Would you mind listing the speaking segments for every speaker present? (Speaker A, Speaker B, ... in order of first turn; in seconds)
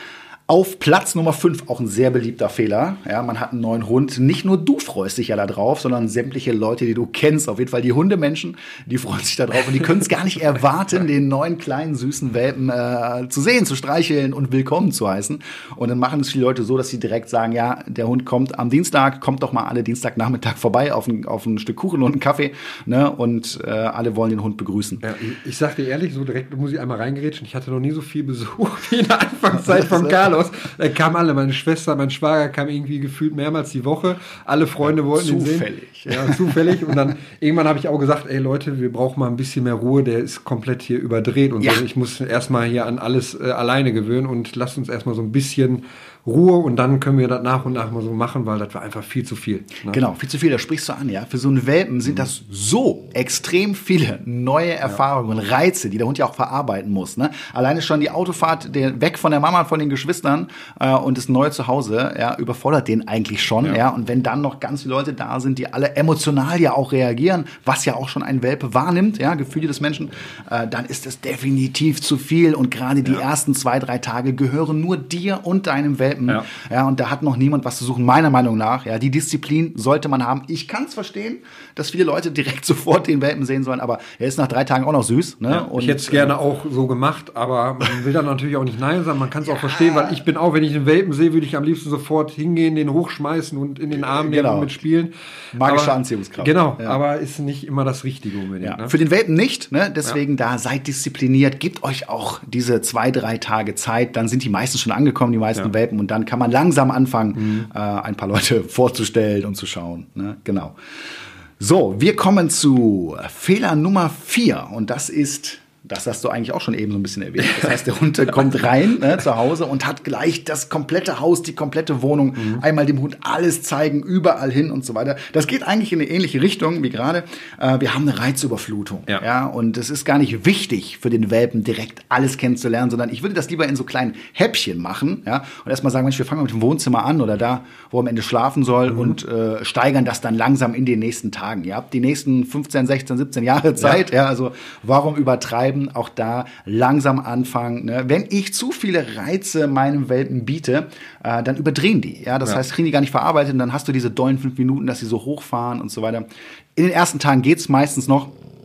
Speaker A: 0.5-25.0, 29.5-30.2, 34.8-37.0, 49.9-86.3, 89.4-90.2, 94.0-94.8, 95.5-97.0, 98.6-110.8, 111.6-158.3
Speaker B: 25.0-50.0, 85.5-98.9, 107.4-107.7, 117.4-117.7, 122.4-122.6, 138.9-139.2